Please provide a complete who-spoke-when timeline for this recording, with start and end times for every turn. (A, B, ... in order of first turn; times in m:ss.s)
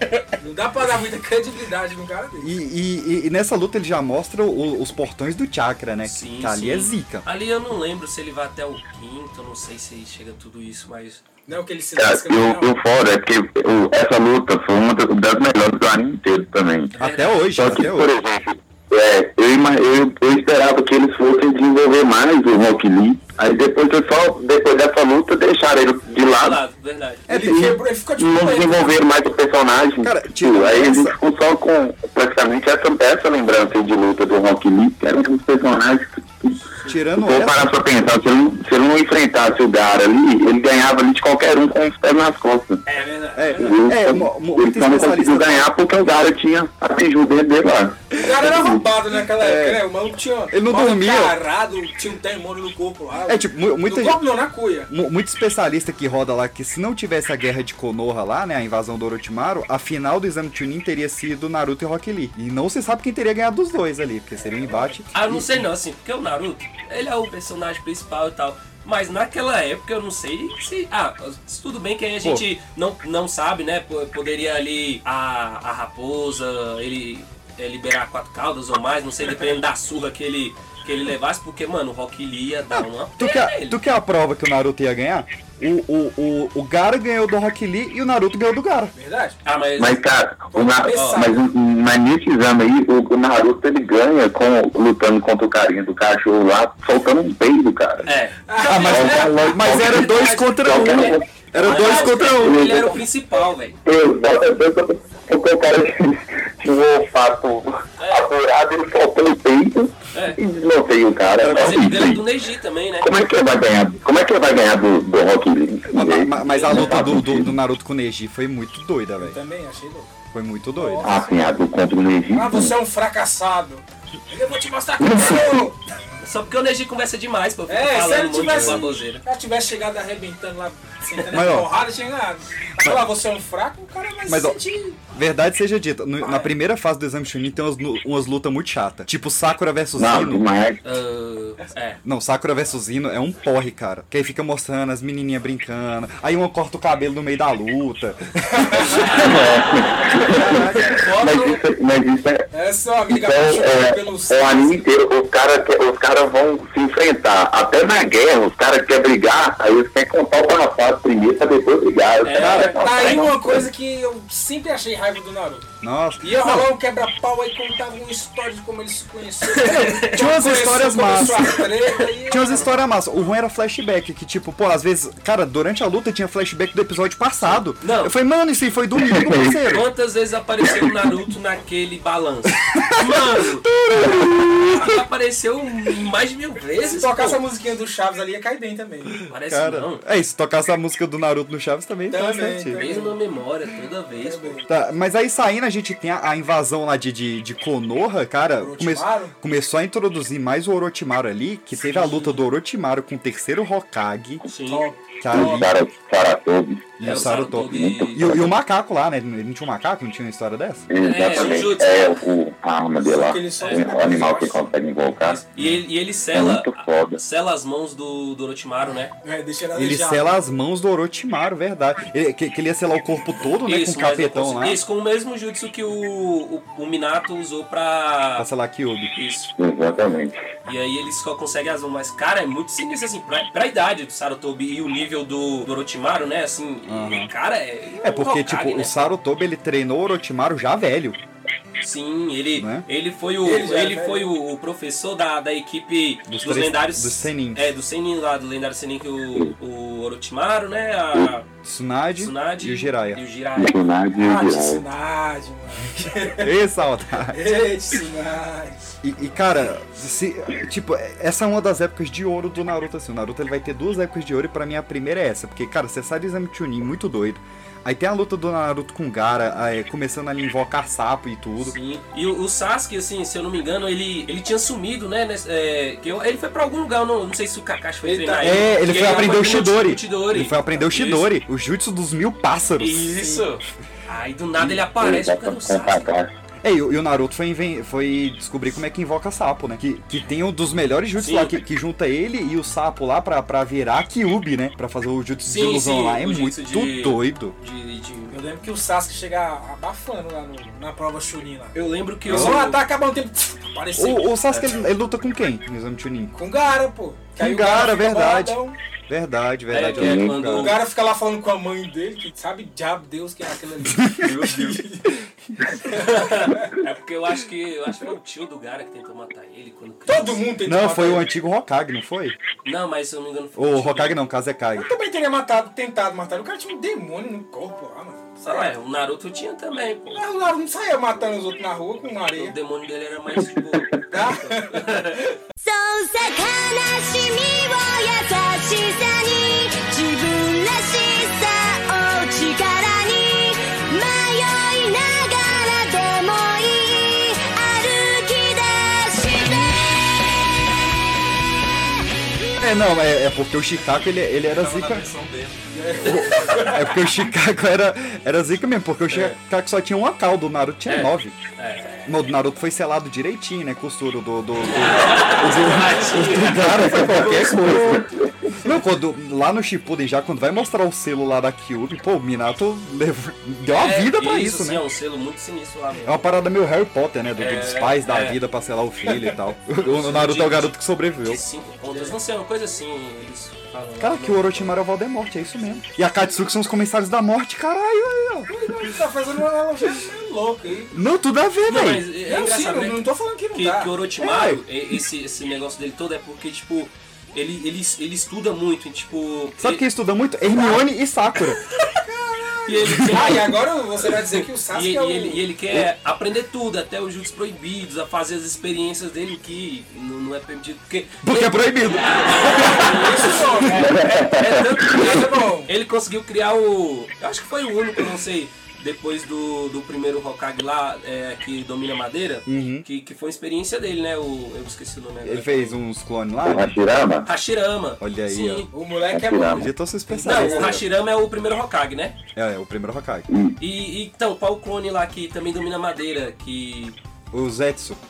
0:00.4-0:02.5 A
0:02.4-0:07.2 B
0:06.0-0:11.2 C
0:11.5-0:12.7 A
0:12.0-0:16.9 D
0:16.9-0:17.5 C
0:17.0-0:18.1 B
0:17.5-0:26.6 D
0:26.4-0:27.3 C
0:27.3-0:27.6 B
0:27.3-0:29.0 A
0:27.3-0:36.6 D
0:30.0-0:31.2 B
0:36.9-0:37.7 B
0:37.2-0:42.8 D
0:42.9-0:43.7 A
0:43.4-0:45.7 B
0:43.6-0:48.8 D
0:48.2-0:54.9 A
0:48.3-0:48.7 B
0:49.4-0:49.8 B
0:50.5-0:51.4 B
0:53.3-0:54.2 B
0:54.9-1:05.6 B
1:04.4-1:05.0 A
1:05.1-1:23.8 C
1:22.7-1:28.9 B
1:29.0-1:29.4 A
1:29.4-1:30.0 C
1:29.8-1:38.1 D
1:30.5-1:31.5 A
1:30.9-1:31.2 C
1:38.0-1:43.8 C
1:38.5-1:39.4 A
1:38.7-1:42.8 B
1:38.8-1:43.0 D
1:43.8-1:52.2 D
1:48.0-1:48.2 C
1:50.1-1:50.4 C
1:51.4-1:53.1 C
1:53.0-1:57.5 D
1:55.9-1:59.4 B
1:56.4-1:57.1 C
1:59.2-2:00.2 A
2:00.3-2:01.2 B
2:00.8-2:01.4 A
2:01.0-2:02.8 D
2:02.3-2:05.8 A
2:05.0-2:05.6 D
2:06.2-2:09.2 C
2:07.7-2:15.0 A
2:08.5-2:08.8 B
2:11.2-2:11.7 B
2:14.3-2:14.6 B
2:15.1-2:20.4 B
2:16.2-2:16.5 A
2:20.0-2:20.8 D
2:20.8-2:22.0 C
2:22.0-2:29.2 B
2:28.5-2:29.0 A
2:29.1-2:32.5 D
2:30.2-2:31.0 B
2:30.9-2:31.6 C
2:32.5-2:34.9 A
2:33.1-2:43.6 D
2:42.2-2:43.3 C
2:42.8-2:45.7 A
2:45.8-2:46.7 B
2:46.2-2:52.8 A
2:49.4-2:50.2 C
2:49.7-2:51.7 B
2:52.0-2:52.8 C
2:52.3-2:59.9 B
2:57.4-2:58.1 C
2:59.1-2:59.5 D
2:59.7-3:03.7 C
3:02.7-3:04.9 B
3:04.7-3:07.4 C
3:06.8-3:09.2 A
3:09.3-3:10.0 C
3:09.4-3:12.8 B
3:12.1-3:13.2 A
3:12.8-3:14.6 C
3:14.2-3:14.7 A
3:14.7-3:24.4 B
3:18.6-3:19.3 A
3:22.0-3:22.4 C
3:24.4-3:24.9 C
3:24.6-3:25.7 A
3:25.2-3:25.7 B
3:25.3-3:28.4 D
3:27.0-3:30.9 B
3:27.0-3:28.4 C
3:30.9-3:35.4 D
3:31.0-3:32.2 C
3:33.0-3:34.6 A
3:33.6-3:34.2 C
3:35.2-3:39.1 C
3:36.3-3:37.2 D
3:39.2-3:40.4 A
3:39.8-3:44.8 B
3:43.7-3:48.5 C
3:48.4-3:49.1 B
3:49.1-3:49.5 C
3:49.6-3:50.4 D
3:50.7-3:59.1 C
3:56.9-3:57.3 B
3:58.0-4:01.2 B
4:01.8-4:11.5 C
4:02.6-4:02.9 B
4:03.4-4:04.3 A
4:06.3-4:07.7 B
4:11.6-4:13.2 B
4:12.2-4:13.8 C
4:13.6-4:14.8 D
4:14.2-4:16.5 A
4:16.4-4:17.4 B
4:17.3-4:18.9 A
4:19.0-4:31.8 B
4:31.6-4:41.3 C
4:38.0-4:39.6 A
4:38.4-4:43.1 B
4:42.8-4:46.1 C
4:43.1-4:43.5 A
4:44.6-4:46.3 D
4:46.6-4:57.6 B
4:51.2-4:51.6 C
4:55.5-4:58.4 C
4:58.3-5:04.4 A
5:01.7-5:02.8 C
5:02.3-5:02.7 B
5:04.0-5:06.3 B
5:06.3-5:08.8 A
5:07.4-5:10.8 B
5:09.7-5:10.8 C
5:10.0-5:10.4 D
5:10.5-5:15.1 A
5:13.8-5:14.3 B
5:14.2-5:14.8 C
5:15.7-5:20.4 C
5:15.8-5:16.8 A
5:20.1-5:21.3 A
5:20.6-5:22.4 B
5:22.6-5:24.3 C
5:23.6-5:24.9 B
5:24.8-5:28.7 A
5:28.4-5:30.2 C
5:30.2-5:32.6 A
5:32.4-5:35.3 C
5:33.7-5:34.0 D
5:34.1-5:35.3 A
5:35.6-5:50.0 E
5:52.6-5:55.1 B
5:55.6-5:57.0 A
5:56.0-5:56.6 C
5:56.0-6:01.4 B
5:59.1-5:59.4 C
6:00.9-6:02.2 C
6:02.0-6:14.8 B
6:04.7-6:07.9 C
6:07.7-6:08.1 D
6:13.7-6:16.2 C
6:16.0-6:21.4 B
6:17.4-6:18.4 C
6:19.8-6:24.8 C
6:21.9-6:22.2 A
6:24.0-6:28.5 B
6:28.5-6:30.9 A
6:30.9-6:32.1 B
6:31.7-6:39.8 C
6:32.2-6:34.0 A
6:34.2-6:34.6 B
6:39.6-6:41.6 B
6:40.5-6:40.8 A
6:41.9-6:45.5 A
6:42.6-6:43.5 C
6:42.8-6:43.4 B
6:44.7-7:05.8 C
6:51.2-6:53.1 B
6:52.3-6:54.0 A
6:53.8-6:54.8 D
6:54.9-6:55.7 A
7:02.5-7:02.9 B
7:05.2-7:07.0 B
7:06.4-7:07.3 D
7:07.2-7:08.7 C
7:08.0-7:08.7 B
7:08.7-7:10.8 A
7:09.1-7:09.7 D
7:09.6-7:10.8 B
7:10.1-7:12.2 C
7:12.4-7:13.3 B
7:13.3-7:13.6 D
7:13.6-7:17.0 C
7:17.3-7:18.0 B